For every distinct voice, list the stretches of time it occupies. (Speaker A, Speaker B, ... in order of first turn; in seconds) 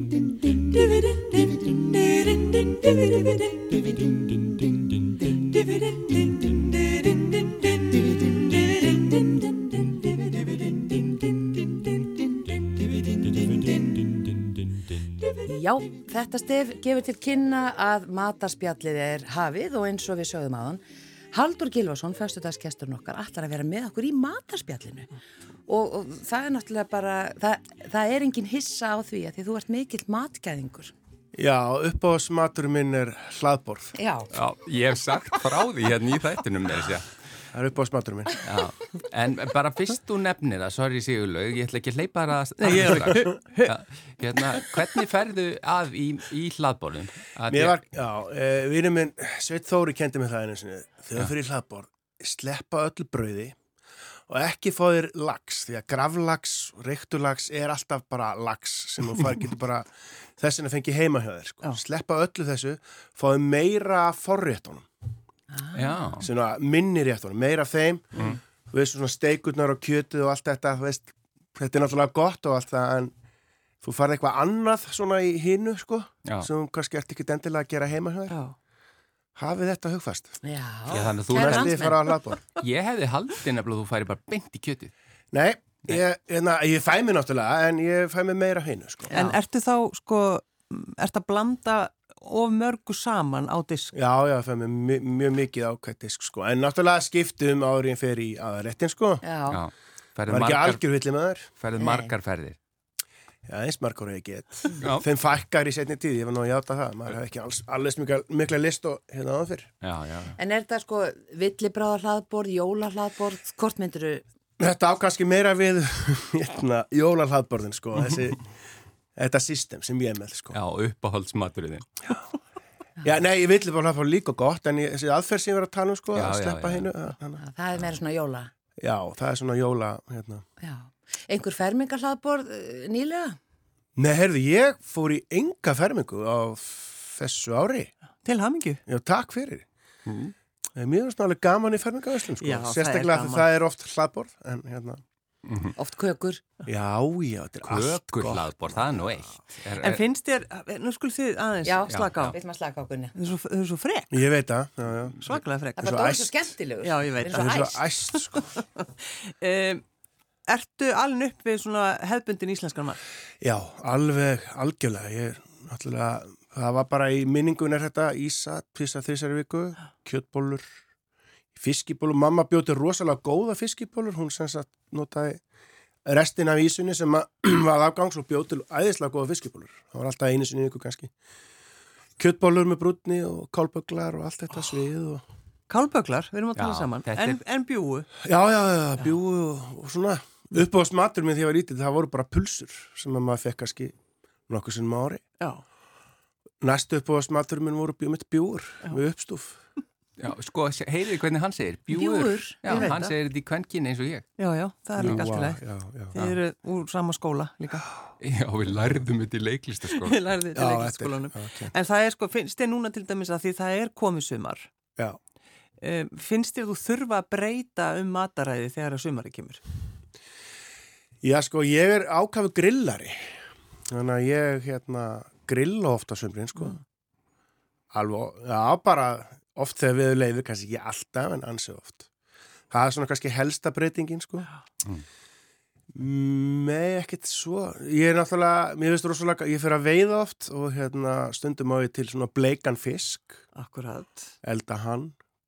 Speaker A: 1.8-2.9, 42.6-43.7, 78.3-78.6, 89.1-94.0, 138.2-138.8, 142.4-143.5, 149.7-152.4, 153.2-154.3, 155.2-155.9, 156.8-159.8, 160.5-163.0, 185.7-188.1, 202.7-203.1, 204.4-205.6, 206.1-207.9, 209.9-214.7, 215.8-219.6, 243.6-244.3
Speaker B: 15.4-20.8, 21.3-25.1, 25.7-30.9, 34.0-34.3, 65.5-66.2, 80.4-82.3, 99.2-99.6, 101.8-102.1, 110.4-114.2, 127.4-128.5, 130.6-133.4, 145.8-146.4, 151.6-153.1, 155.8-157.8, 201.9-202.9
Speaker C: 31.4-34.0, 37.5-38.4, 47.5-53.6, 54.3-64.9, 66.2-73.1, 73.8-78.4, 79.4-80.4, 81.3-82.4, 85.3-89.2, 93.9-99.2, 100.3-101.5, 103.5-109.7, 114.6-118.5, 119.2-120.6, 123.0-127.4, 128.8-130.4, 134.0-137.9, 138.9-139.7, 140.8-145.0, 146.7-148.8, 154.1-156.6, 157.3-158.5, 163.4-170.7, 171.6-175.4, 176.1-181.1, 182.2-185.2, 188.2-193.9, 194.5-195.2, 196.6-199.6, 205.0-206.2, 210.6-211.7, 221.2-223.3, 223.9-226.8, 227.9-232.1, 232.7-234.5, 235.9-243.4, 244.4-245.2
Speaker D: 34.3-37.1, 38.4-47.8, 65.7-66.3, 80.9-81.9, 82.6-84.9, 99.5-100.8, 101.6-102.6, 104.8-105.1, 109.8-110.4, 120.5-122.0, 126.1-126.9, 140.1-140.3, 145.5-145.8, 147.6-150.0, 151.8-152.4, 186.6-187.4, 200.2-204.3, 208.2-210.2